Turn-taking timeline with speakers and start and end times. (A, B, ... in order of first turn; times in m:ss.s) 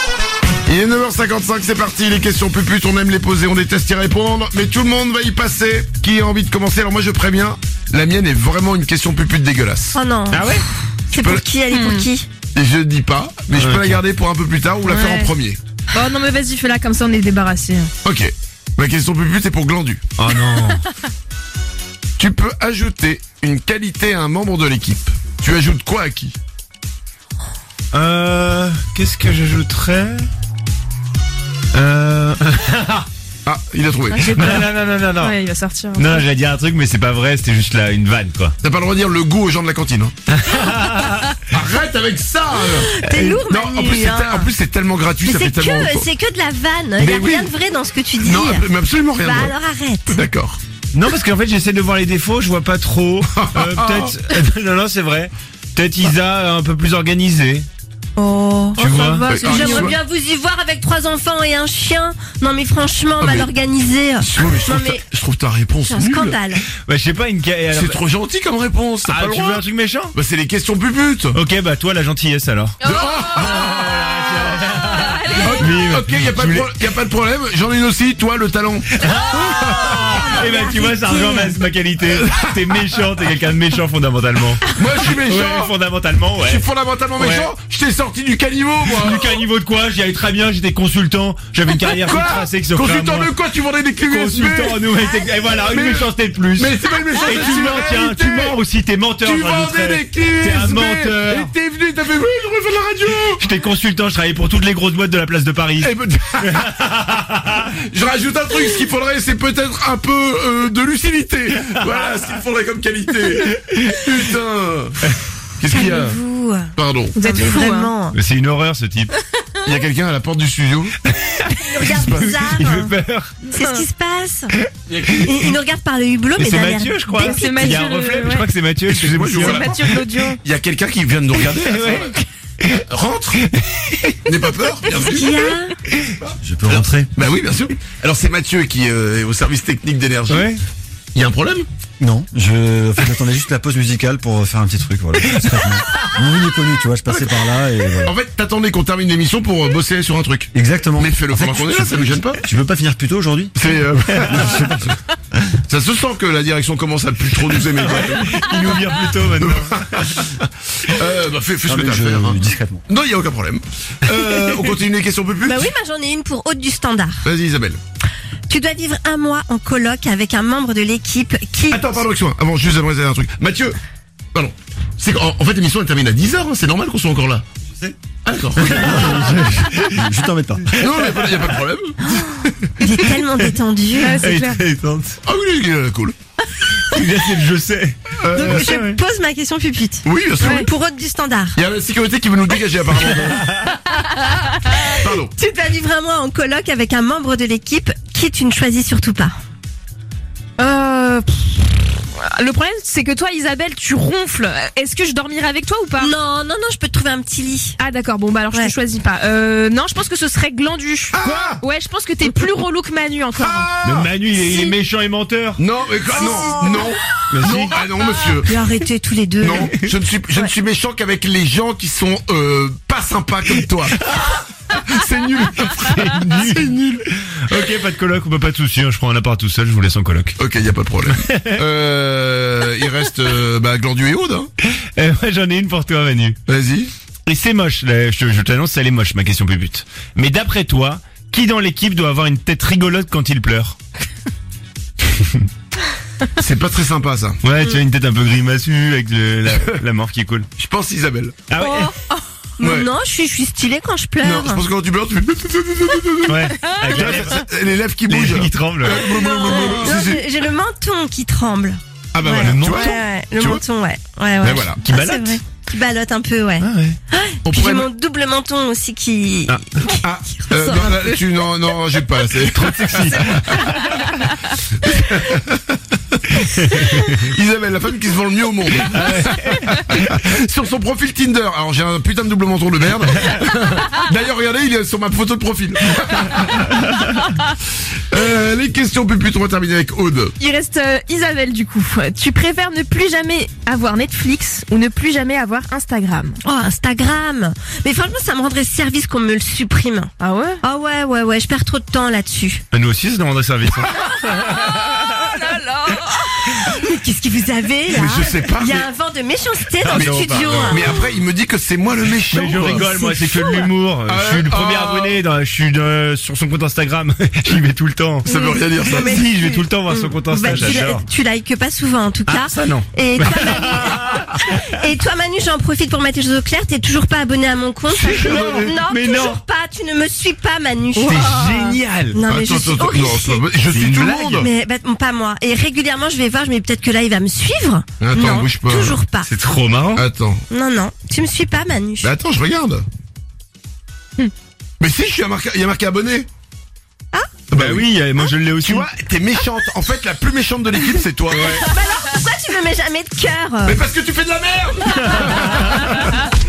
0:00.6-0:10.0 A
0:09.9-0:12.3 B
0:10.3-0:10.6 C
0:11.1-0:11.4 A
0:11.7-0:12.1 D
0:12.5-0:15.6 A
0:13.5-0:14.0 C
0:14.8-0:15.3 D
0:15.9-0:17.9 D
0:18.0-0:20.1 A
0:20.2-0:20.8 C
0:20.5-0:20.8 D
0:22.2-0:26.4 A
0:27.9-0:30.3 C
0:31.7-0:33.1 C
0:33.4-0:34.5 A
0:34.1-0:36.2 D
0:34.2-0:35.4 C
0:36.0-0:38.6 C
0:38.6-0:40.1 A
0:40.3-0:41.4 C
0:41.5-0:42.9 A
0:42.7-0:44.5 B
0:43.0-0:43.4 C
0:43.5-0:46.1 A
0:45.2-0:48.6 B
0:47.0-0:47.5 A
0:48.2-0:49.5 A
0:49.2-0:50.2 B
0:50.1-0:50.6 A
0:50.9-0:57.7 C
0:53.3-0:54.1 A
0:58.2-1:00.0 D
0:58.8-0:59.3 C
0:59.3-0:59.9 A
0:59.4-1:05.0 B
1:03.2-1:03.5 A
1:04.2-1:06.4 A
1:05.9-1:06.6 B
1:06.7-1:08.0 C
1:07.7-1:11.4 A
1:09.0-1:10.1 C
1:11.3-1:12.8 C
1:12.8-1:13.7 D
1:12.8-1:13.9 A
1:13.5-1:16.8 C
1:14.9-1:15.7 D
1:15.4-1:19.0 A
1:19.0-1:27.5 C
1:19.9-1:20.2 A
1:20.6-1:21.5 B
1:24.7-1:25.7 A
1:26.4-1:29.4 A
1:28.8-1:33.3 C
1:31.8-1:34.9 A
1:34.0-1:41.5 C
1:35.1-1:35.6 B
1:35.6-1:38.6 A
1:39.2-1:43.4 A
1:43.4-1:47.5 C
1:45.8-1:46.7 A
1:47.5-1:56.2 A
1:55.7-1:58.2 B
1:56.8-1:57.1 A
1:57.1-1:57.9 D
1:58.1-1:59.1 C
1:59.6-2:01.0 A
2:01.0-2:03.4 C
2:01.5-2:02.9 B
2:01.9-2:02.5 A
2:03.5-2:04.5 B
2:03.5-2:03.8 D
2:04.9-2:05.5 A
2:05.2-2:07.8 B
2:06.4-2:09.6 C
2:07.1-2:08.5 D
2:08.9-2:12.1 A
2:09.3-2:10.4 D
2:11.4-2:12.6 C
2:12.7-2:13.4 A
2:13.4-2:14.2 C
2:14.2-2:15.5 A
2:15.0-2:15.7 B
2:16.2-2:20.6 A
2:16.4-2:17.1 E
2:20.3-2:20.6 C
2:21.1-2:21.7 A
2:22.0-2:28.1 E
2:25.3-2:26.1 C
2:27.1-2:32.4 A
2:30.5-2:33.5 E
2:33.5-2:34.9 A
2:34.1-2:34.6 C
2:34.2-2:35.0 E
2:35.6-2:45.7 A
2:37.6-2:40.2 C
2:41.6-2:42.8 E
2:45.4-2:47.2 B
2:47.2-2:47.8 A
2:48.5-2:52.0 B
2:51.7-2:53.8 A
2:54.3-2:57.4 A
2:58.2-2:59.1 A
2:58.6-3:00.0 C
2:58.6-3:00.8 E
3:00.8-3:02.7 A
3:02.8-3:04.2 B
3:04.0-3:04.6 D
3:04.2-3:05.2 C
3:05.2-3:06.2 A
3:06.8-3:09.0 C
3:08.2-3:08.8 A
3:08.3-3:11.6 B
3:10.0-3:10.6 A
3:10.4-3:10.7 D
3:11.6-3:13.5 A
3:13.3-3:13.7 C
3:14.8-3:15.3 A
3:15.3-3:19.3 B
3:20.6-3:26.1 D
3:26.0-3:27.8 B
3:27.8-3:33.8 D
3:31.1-3:31.6 A
3:33.4-3:34.1 A
3:33.8-3:35.6 C
3:34.4-3:34.7 B
3:35.6-3:38.5 A
3:36.1-3:36.9 B
3:37.3-3:37.8 C
3:38.4-3:39.7 B
3:39.4-3:44.0 A
3:39.5-3:39.9 C
3:44.0-3:44.4 C
3:44.7-3:47.7 A
3:45.8-3:50.4 C
3:50.4-3:54.5 A
3:51.1-3:51.7 C
3:54.6-3:56.4 C
3:56.5-3:56.9 A
3:57.2-4:03.8 C
4:05.2-4:05.4 C
4:06.3-4:07.4 A
4:07.4-4:10.5 C
4:09.5-4:09.8 A
4:10.6-4:11.4 A
4:11.5-4:11.9 C
4:11.6-4:11.9 B
4:12.6-4:14.6 B
4:12.6-4:12.9 A
4:14.2-4:20.2 A
4:16.2-4:17.3 C
4:18.1-4:19.0 C
4:18.9-4:31.5 B
4:22.1-4:23.6 A
4:22.2-4:22.9 C
4:24.4-4:24.8 A
4:24.8-4:25.4 C
4:26.6-4:27.0 C
4:27.4-4:27.9 A
4:29.5-4:29.8 C
4:30.0-4:33.8 A
4:32.5-4:34.1 C
4:34.6-4:46.7 A
4:36.6-4:37.1 C
4:38.7-4:39.8 C
4:48.1-4:50.3 A
4:50.4-4:56.4 D
4:56.4-5:02.6 B
5:00.2-5:00.6 D
5:02.7-5:05.1 C
5:04.5-5:06.4 D
5:06.3-5:11.0 B
5:07.9-5:08.9 A
5:09.8-5:10.8 C
5:09.8-5:13.0 A
5:12.2-5:18.3 C
5:12.7-5:13.6 B
5:14.1-5:15.2 A
5:18.2-5:19.2 A
5:18.3-5:33.4 B
5:18.9-5:21.0 C
5:22.2-5:24.3 C
5:27.9-5:28.7 A
5:28.0-5:29.4 C
5:31.0-5:32.2 C
5:32.3-5:34.5 A
5:33.7-5:34.5 C
5:34.0-5:39.3 B
5:38.0-5:39.0 A
5:39.2-5:40.1 C
5:40.0-5:40.4 A
5:40.5-5:42.1 B
5:42.0-5:42.8 A
5:44.8-5:46.3 A
5:47.5-5:47.9 A
5:47.5-5:48.9 C
5:48.6-5:51.6 A
5:51.3-5:53.8 B
5:51.4-5:51.7 C
5:53.6-5:56.0 A